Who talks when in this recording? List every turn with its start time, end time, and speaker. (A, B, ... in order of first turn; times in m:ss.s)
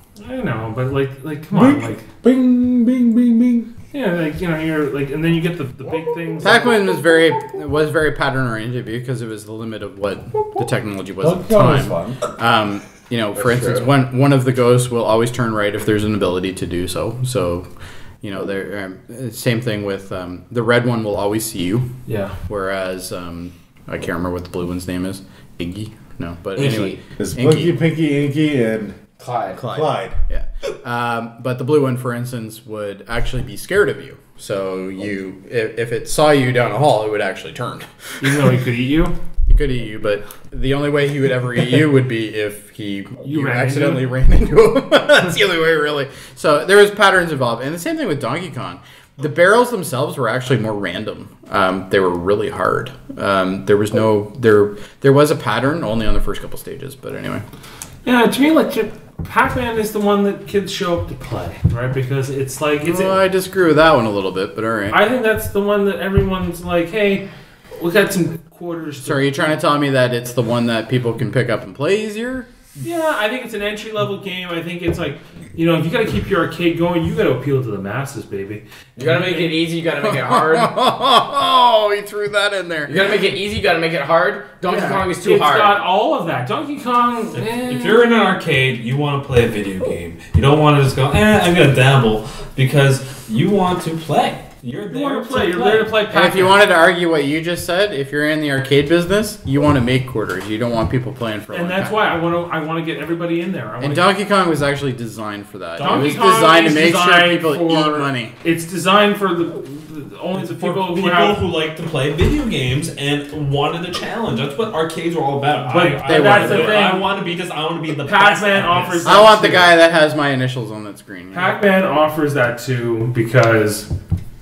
0:00.2-0:02.1 A
0:01.5-0:03.7 B
0:03.9-0:06.8 A
0:06.4-0:17.7 C
0:11.2-0:12.3 B
0:13.4-0:13.9 D
0:18.2-0:27.8 C
0:26.6-0:27.0 E
0:27.2-0:29.0 B
0:29.2-0:29.6 D
0:29.6-0:30.2 B
0:29.6-0:38.4 C
0:38.2-0:39.2 A
0:39.5-0:57.5 C
0:43.2-0:44.1 A
0:58.0-1:03.2 A
1:02.8-1:05.0 C
1:04.9-1:09.4 A
1:09.0-1:12.5 C
1:12.8-1:19.5 A
1:19.0-1:20.8 D
1:20.0-1:23.0 C
1:22.9-1:25.8 D
1:24.7-1:28.0 A
1:27.4-1:36.0 E
1:34.9-1:36.6 A
1:36.1-1:42.2 C
1:41.5-1:44.1 A
1:43.8-1:48.4 C
1:45.8-1:51.5 A
1:45.8-1:46.2 E
1:50.4-1:59.3 E
1:55.7-1:57.1 A
1:56.0-1:57.0 C
1:58.0-1:59.7 A
1:59.0-2:01.6 C
2:01.3-2:03.9 A